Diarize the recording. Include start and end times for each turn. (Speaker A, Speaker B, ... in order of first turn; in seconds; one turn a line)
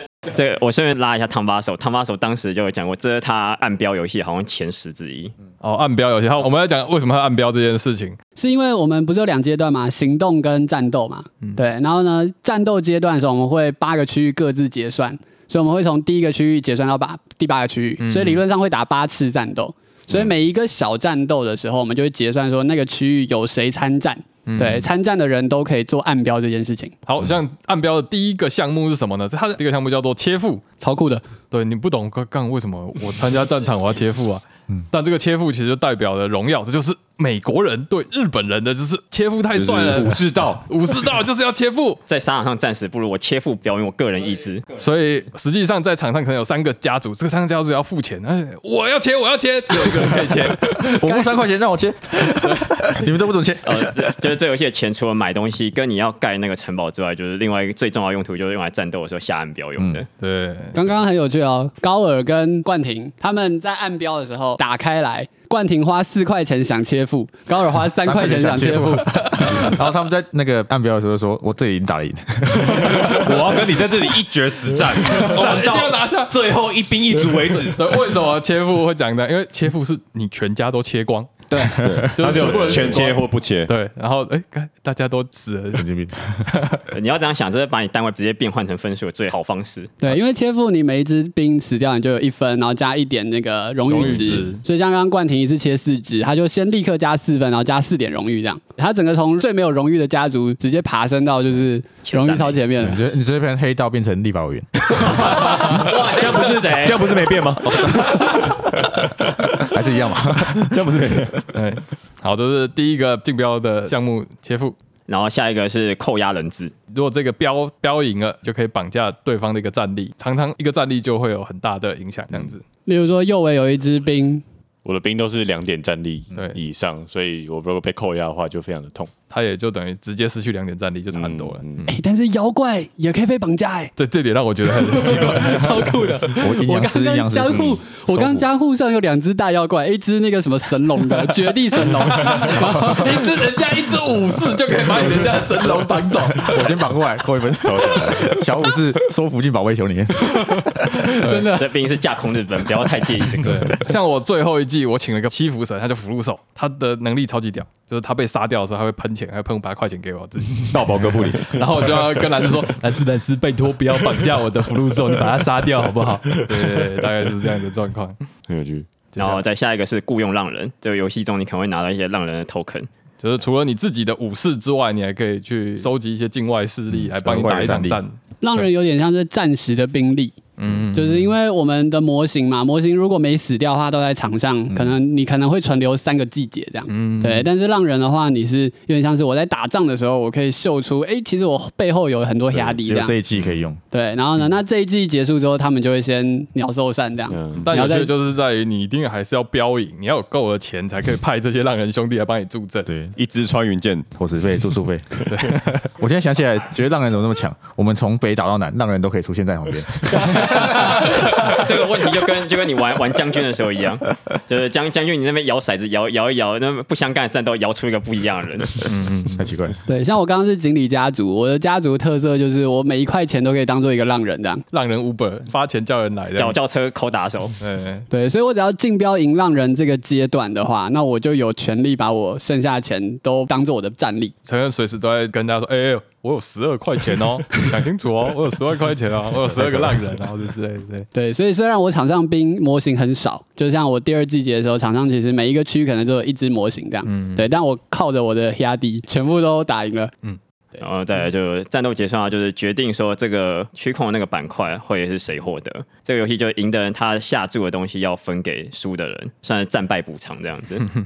Speaker A: 0.2-5.3
Speaker B: 5.6-8.2
Speaker C: 8.3-26.9
Speaker B: 18.0-18.4
Speaker B: 24.4-24.9
Speaker B: 27.1-30.6
Speaker C: 30.8-31.2
Speaker B: 31.5-42.0
Speaker D: 39.5-40.6
Speaker A: 42.1-44.7
Speaker B: 44.7-51.1
Speaker E: 49.9-54.2
Speaker B: 52.2-52.7
Speaker A: 53.6-60.1
Speaker E: 59.8-60.0
Speaker B: 60.2-60.8
Speaker C: 60.7-69.7
Speaker E: 68.0-73.2
Speaker B: 72.7-73.3
Speaker D: 72.9-78.0
Speaker B: 75.0-76.3
Speaker B: 77.7-81.5
Speaker C: 81.5-81.8
Speaker E: 81.6-82.4
Speaker B: 82.0-85.9
Speaker D: 82.2-83.7
Speaker E: 85.7-86.5
Speaker B: 86.5-86.8
Speaker A: 86.9-89.9
Speaker C: 90.0-103.0
Speaker B: 93.8-94.6
Speaker A: 102.0-102.6
Speaker E: 102.8-105.2
Speaker A: 105.0-107.2
Speaker D: 105.4-108.6
Speaker E: 109.6-110.8
Speaker D: 110.5-111.5
Speaker B: 111.5-114.7
Speaker A: 115.1-116.7
Speaker B: 116.9-122.6
Speaker C: 122.8-124.4
Speaker F: 124.8-129.1
Speaker B: 129.3-131.9
Speaker F: 131.1-131.9
Speaker C: 131.9-133.9
Speaker B: 134.0-136.0
Speaker C: 134.7-143.3
Speaker E: 136.3-138.5
Speaker F: 137.5-137.8
Speaker B: 141.9-146.8
Speaker C: 145.8-146.2
Speaker E: 146.4-151.1
Speaker F: 147.6-148.1
Speaker C: 151.2-151.7
Speaker A: 151.3-153.6
Speaker B: 153.4-168.2
Speaker D: 160.7-161.8
Speaker F: 168.5-168.9
Speaker B: 169.1-169.4
Speaker A: 169.2-172.9
Speaker B: 173.2-178.2
Speaker E: 177.1-178.0
Speaker C: 178.4-180.4
Speaker B: 180.6-181.3
Speaker C: 180.9-193.2
Speaker E: 184.7-185.0
Speaker B: 186.9-187.5
Speaker E: 192.5-193.8
Speaker F: 193.3-193.6
Speaker C: 193.9-198.1
Speaker F: 197.3-197.7
Speaker B: 197.6-202.9
Speaker E: 202.8-203.1
Speaker D: 203.1-204.1
Speaker E: 204.1-205.1
Speaker B: 205.3-205.8
Speaker E: 205.9-210.6
Speaker A: 210.2-218.8
Speaker B: 218.8-219.5
Speaker E: 219.3-219.8
Speaker C: 219.9-224.6
Speaker B: 224.7-226.6
Speaker A: 226.3-227.5
Speaker B: 227.6-228.1
Speaker C: 228.1-234.3
Speaker B: 234.4-241.1
Speaker C: 241.1-250.1
Speaker B: 247.1-247.4
Speaker A: 250.8-260.9